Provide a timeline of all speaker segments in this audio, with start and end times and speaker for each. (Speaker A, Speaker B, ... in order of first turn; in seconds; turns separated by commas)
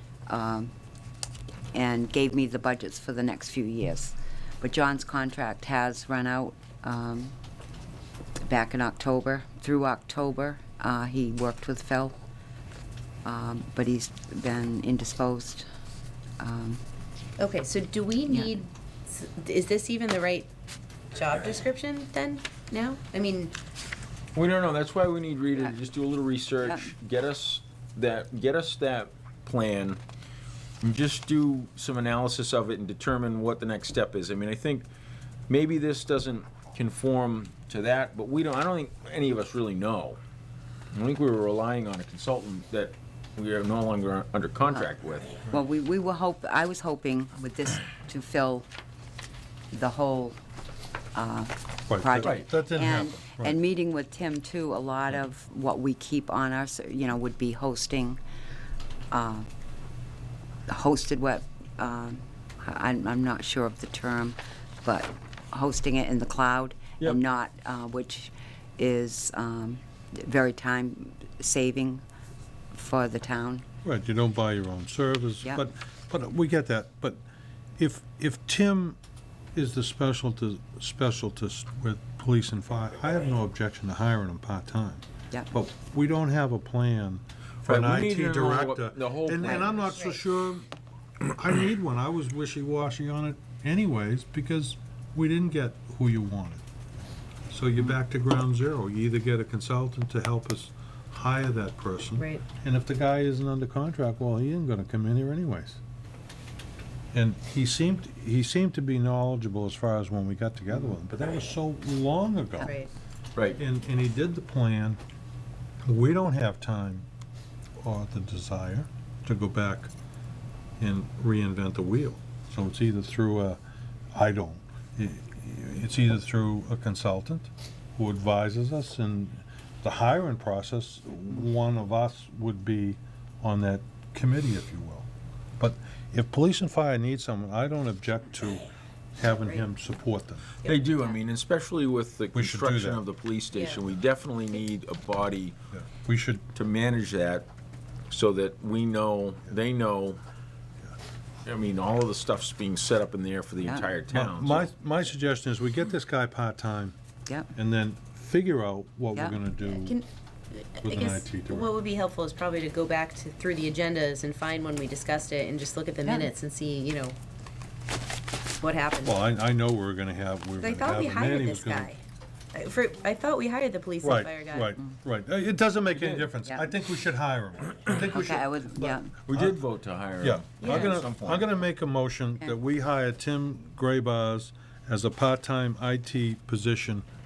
Speaker A: 0.3-0.7, Speaker A: 1.7-7.3, Speaker A: 8.4-12.2, Speaker A: 13.2-15.7, Speaker A: 16.4-16.8, Speaker B: 17.4-20.5, Speaker B: 21.1-23.5, Speaker C: 24.4-30.0, Speaker A: 26.6-26.9, Speaker C: 30.8-34.9, Speaker C: 35.5-40.2, Speaker C: 40.9-45.4, Speaker A: 45.5-48.7, Speaker A: 49.7-50.4, Speaker A: 51.1-58.2, Speaker D: 51.9-53.6, Speaker C: 52.2-52.5, Speaker A: 59.1-59.5, Speaker A: 60.7-72.0, Speaker A: 72.7-73.7, Speaker D: 73.8-77.2, Speaker D: 77.8-79.0, Speaker D: 79.5-90.7, Speaker C: 87.7-89.9, Speaker B: 89.5-90.2, Speaker D: 91.2-96.6, Speaker D: 97.5-105.8, Speaker D: 107.1-112.8, Speaker B: 112.6-112.9, Speaker D: 113.6-115.0, Speaker D: 115.8-117.1, Speaker D: 117.8-119.9, Speaker D: 120.8-123.6, Speaker D: 124.1-135.1, Speaker D: 135.6-140.5, Speaker B: 140.6-141.1, Speaker C: 140.6-145.6, Speaker D: 142.3-143.0, Speaker B: 143.5-143.8, Speaker D: 145.7-146.5, Speaker C: 146.6-147.5, Speaker C: 148.1-150.2, Speaker C: 151.4-154.7, Speaker A: 153.6-153.9, Speaker D: 154.1-156.9, Speaker D: 157.6-160.0, Speaker B: 159.7-167.2, Speaker D: 160.8-161.7, Speaker A: 166.1-166.3, Speaker B: 168.6-169.2, Speaker D: 169.0-171.9, Speaker B: 170.6-172.0, Speaker B: 172.5-174.8, Speaker D: 174.0-179.6, Speaker C: 175.9-176.3, Speaker A: 178.0-179.1, Speaker C: 179.3-181.5, Speaker D: 180.2-187.1, Speaker B: 180.6-181.0